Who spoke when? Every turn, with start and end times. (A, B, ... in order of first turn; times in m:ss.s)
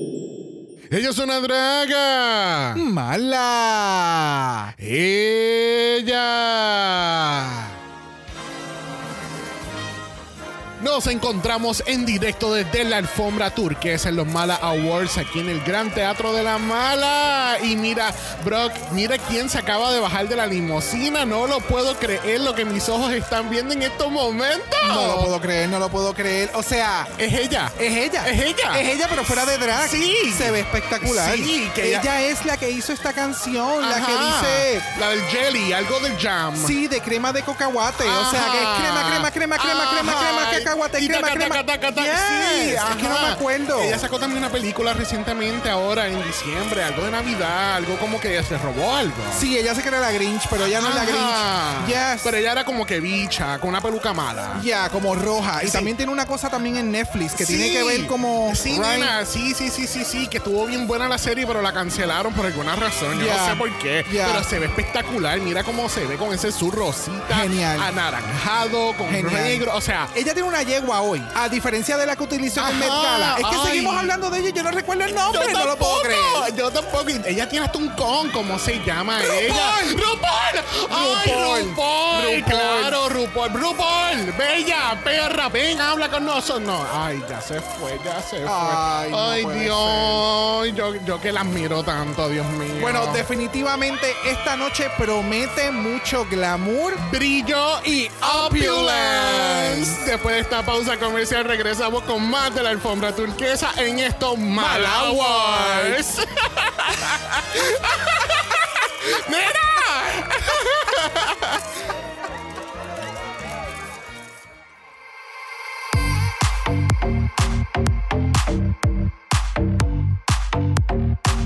0:00.9-0:02.8 A
0:02.8-0:04.7 B
0:04.8-0:07.8 A
0:10.8-0:25.3 A
0:24.8-0:27.1 B
0:27.2-0:28.9 A
0:27.8-0:34.9 B
0:29.7-0:32.1 A
0:33.8-0:36.8 A
0:36.6-0:44.1 B
0:38.0-0:49.5 A
0:49.3-0:52.4 B
0:50.8-0:54.7 A
0:54.5-0:59.2 B
0:55.6-0:55.9 A
0:57.4-1:10.1 A
1:03.1-1:04.5 B
1:07.3-1:07.9 B
1:09.1-1:16.5 B
1:12.6-1:14.1 A
1:15.2-1:33.3 A
1:19.2-1:20.0 B
1:20.8-1:23.0 B
1:28.4-1:30.3 B
1:32.8-1:37.0 B
1:37.0-1:51.6 A
1:37.8-1:40.0 B
1:44.6-1:46.0 B